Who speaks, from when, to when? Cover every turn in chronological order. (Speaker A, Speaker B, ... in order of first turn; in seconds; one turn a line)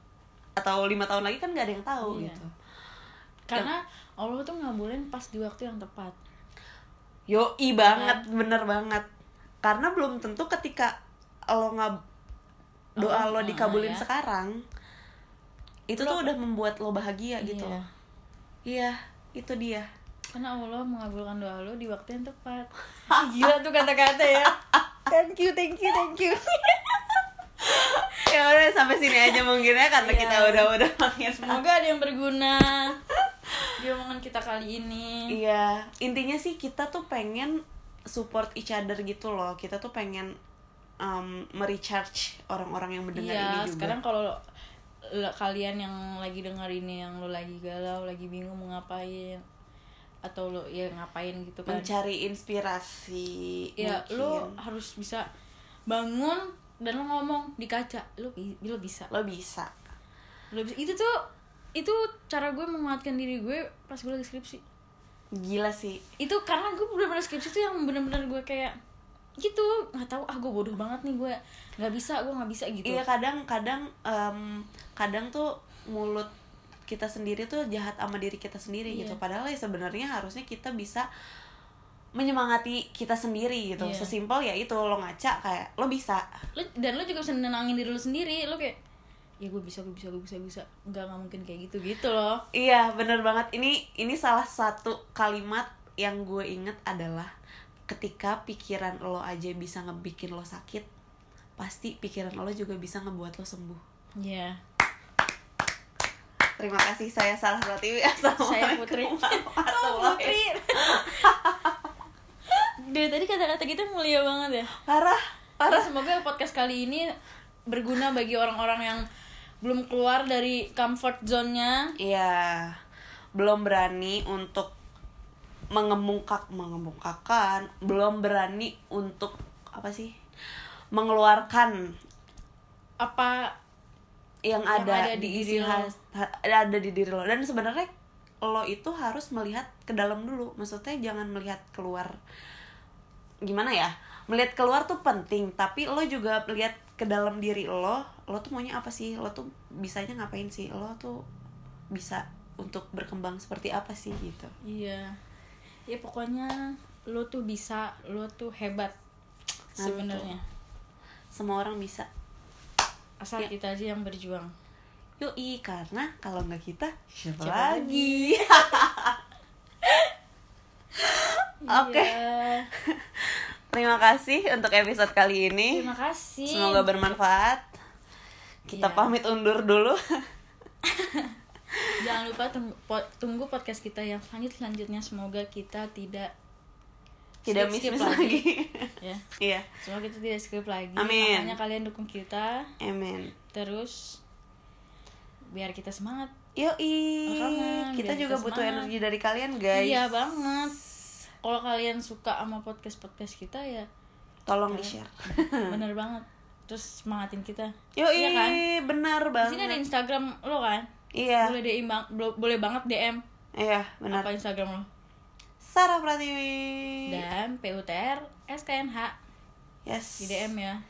Speaker A: 0.6-2.5
Speaker B: 2.0-2.4
Speaker B: 3.5-6.2
Speaker A: 7.3-9.1
Speaker B: 7.8-8.2
Speaker A: 9.6-10.9
Speaker A: 11.5-12.0
Speaker A: 13.0-14.6
Speaker B: 13.0-14.1
Speaker A: 15.9-17.8
Speaker B: 16.0-16.3
Speaker B: 17.4-17.9
Speaker A: 18.7-19.9
Speaker B: 20.3-27.2
Speaker A: 23.1-23.5
Speaker A: 24.4-24.8
Speaker A: 27.6-31.6
Speaker B: 27.9-28.2
Speaker B: 30.0-30.7
Speaker B: 31.4-33.0
Speaker B: 33.8-35.4
Speaker A: 35.3-40.4
Speaker A: 41.0-44.0
Speaker B: 43.2-44.4
Speaker B: 45.1-49.4
Speaker B: 50.2-51.9
Speaker A: 51.7-54.6
Speaker B: 53.8-55.3
Speaker B: 55.9-59.1
Speaker A: 59.1-59.7
Speaker B: 60.5-61.1
Speaker B: 61.8-64.6
Speaker A: 65.3-66.0
Speaker B: 66.2-68.8
Speaker B: 69.4-73.0
Speaker A: 72.8-76.3
Speaker A: 76.9-81.1
Speaker B: 78.9-79.2
Speaker A: 82.2-86.2
Speaker B: 83.8-84.1
Speaker B: 86.5-88.8
Speaker B: 89.4-92.4
Speaker A: 92.5-97.3
Speaker A: 97.9-100.9
Speaker A: 101.6-103.8
Speaker B: 104.2-104.6
Speaker A: 106.6-111.9
Speaker B: 108.4-111.3
Speaker B: 112.5-114.7
Speaker A: 114.8-115.9
Speaker B: 115.7-117.1
Speaker B: 117.7-119.1
Speaker B: 119.6-121.9
Speaker A: 122.0-122.8
Speaker A: 123.4-124.7
Speaker A: 125.7-130.2
Speaker A: 130.9-132.0
Speaker B: 133.0-133.6
Speaker A: 134.5-137.9
Speaker B: 134.7-135.9
Speaker A: 138.4-142.2
Speaker A: 143.4-151.2
Speaker A: 151.9-154.5
Speaker B: 154.6-155.2
Speaker B: 155.9-158.9
Speaker B: 159.8-160.4
Speaker A: 159.8-160.4
Speaker A: 161.3-162.1
Speaker B: 163.2-164.5
Speaker A: 165.2-169.2
Speaker B: 167.4-168.9
Speaker B: 169.8-170.1
Speaker A: 171.0-172.2
Speaker B: 171.6-172.7
Speaker A: 172.8-175.8
Speaker B: 175.7-176.9
Speaker A: 176.5-177.7
Speaker B: 178.7-179.1
Speaker A: 178.7-180.0
Speaker B: 180.8-181.4
Speaker B: 182.0-186.3
Speaker A: 187.4-189.7
Speaker B: 187.5-188.4
Speaker B: 189.8-192.7
Speaker A: 191.0-191.6
Speaker A: 192.8-193.4
Speaker B: 193.5-194.2
Speaker B: 195.5-196.3
Speaker A: 196.6-200.1
Speaker B: 197.3-198.9
Speaker B: 199.7-200.8
Speaker B: 201.4-203.9
Speaker A: 204.5-205.8
Speaker B: 205.6-208.6
Speaker A: 208.0-209.8
Speaker B: 209.4-210.9
Speaker A: 211.2-211.6
Speaker B: 211.4-213.2
Speaker A: 213.6-214.3
Speaker B: 214.1-214.9
Speaker A: 215.6-217.2
Speaker B: 217.1-219.2
Speaker A: 219.8-220.5
Speaker B: 220.2-220.8